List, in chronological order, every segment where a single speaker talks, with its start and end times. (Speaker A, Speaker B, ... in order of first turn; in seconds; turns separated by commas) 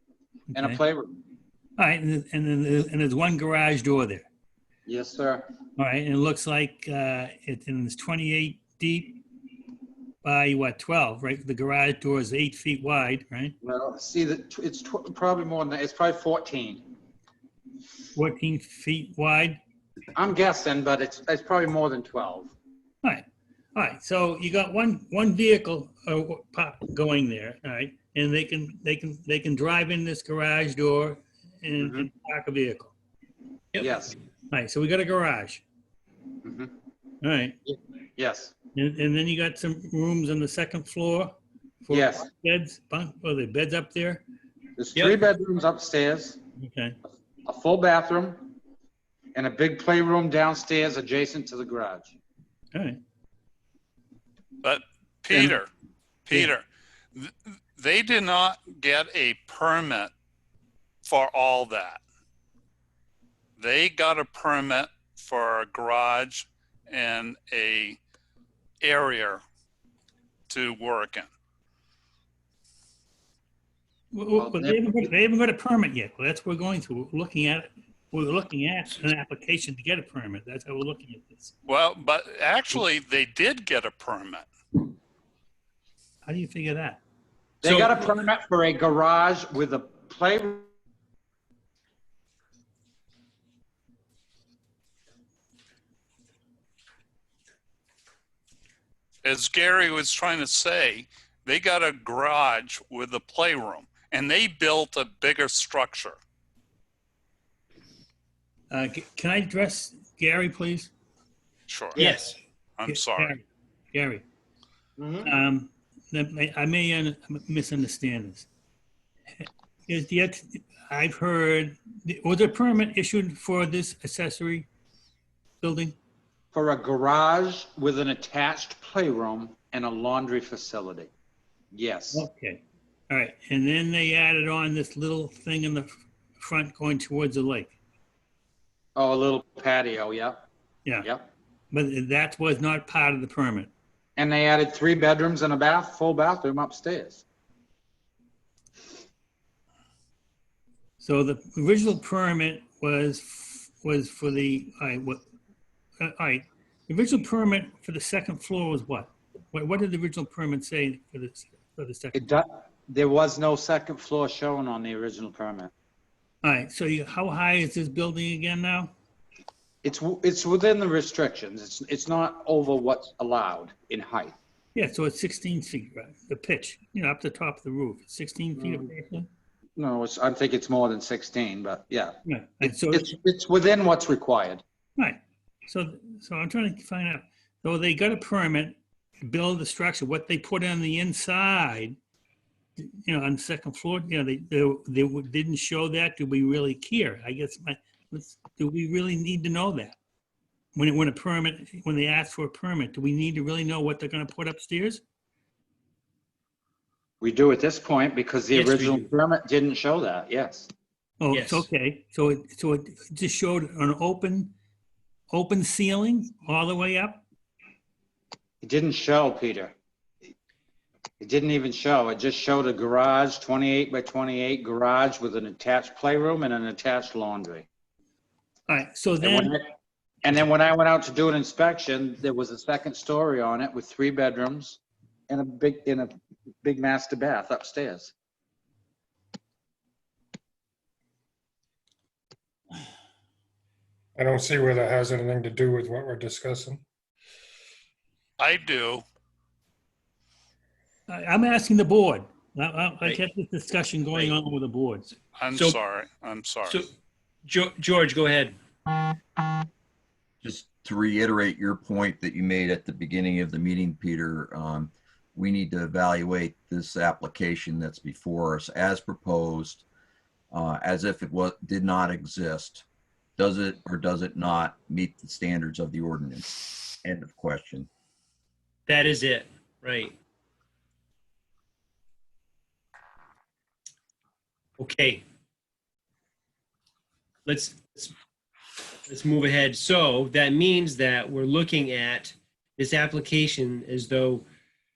Speaker A: 0.5-0.8, Speaker B: 0.5-1.1, Speaker A: 1.8-4.2, Speaker B: 4.9-5.5, Speaker A: 5.8-9.2, Speaker A: 10.2-13.5, Speaker B: 13.6-16.8, Speaker A: 18.1-19.6, Speaker B: 20.2-22.5, Speaker A: 23.0-32.9, Speaker B: 31.8-32.1, Speaker B: 33.8-34.2, Speaker A: 34.5-35.6, Speaker B: 36.4-36.7, Speaker A: 37.2-37.6, Speaker B: 37.7-38.5, Speaker A: 38.7-44.2, Speaker B: 41.9-42.3, Speaker B: 44.8-46.4, Speaker A: 46.6-47.0, Speaker B: 47.4-48.5, Speaker B: 49.3-52.1, Speaker A: 52.7-53.0, Speaker C: 54.6-55.7, Speaker C: 56.3-60.1, Speaker C: 61.0-62.0, Speaker C: 63.6-68.0, Speaker C: 68.8-69.4, Speaker C: 70.5-71.3, Speaker A: 74.1-81.5, Speaker B: 74.4-75.1, Speaker C: 81.7-84.5, Speaker A: 86.2-87.0, Speaker B: 87.6-90.7, Speaker A: 87.7-88.0, Speaker C: 99.2-106.2, Speaker A: 108.7-110.9, Speaker C: 111.7-112.0, Speaker D: 112.0-112.4, Speaker C: 112.8-113.4, Speaker A: 112.8-114.2, Speaker B: 115.0-115.3, Speaker A: 115.2-118.5, Speaker A: 119.4-124.7, Speaker A: 125.6-126.0, Speaker B: 126.5-131.1, Speaker B: 131.7-132.2, Speaker A: 132.1-137.8, Speaker B: 139.0-140.5, Speaker B: 141.0-141.3, Speaker A: 141.7-143.7, Speaker B: 144.2-147.2, Speaker A: 151.0-155.2, Speaker A: 156.0-162.2, Speaker B: 162.1-165.7, Speaker A: 166.4-168.9, Speaker B: 169.8-174.3, Speaker A: 174.8-179.3, Speaker B: 178.6-178.9, Speaker B: 179.8-184.6, Speaker A: 182.2-183.1, Speaker A: 185.0-192.0, Speaker A: 192.8-200.0, Speaker A: 200.8-205.0, Speaker B: 207.2-210.7, Speaker D: 208.5-209.1, Speaker A: 211.2-214.6, Speaker D: 211.3-211.7, Speaker A: 215.3-217.2, Speaker B: 218.6-219.7, Speaker B: 221.2-227.7, Speaker A: 228.7-229.6, Speaker B: 229.2-229.7, Speaker B: 230.2-236.1, Speaker B: 236.6-238.1, Speaker E: 244.2-246.8, Speaker C: 248.4-249.0, Speaker A: 251.1-255.1, Speaker D: 254.1-254.4, Speaker C: 255.3-256.8, Speaker D: 255.5-255.8, Speaker D: 257.4-258.6, Speaker F: 260.4-269.8, Speaker F: 270.5-272.8, Speaker F: 273.4-277.9, Speaker D: 278.9-280.1, Speaker D: 284.8-285.2, Speaker D: 287.4-288.1, Speaker D: 289.1-294.4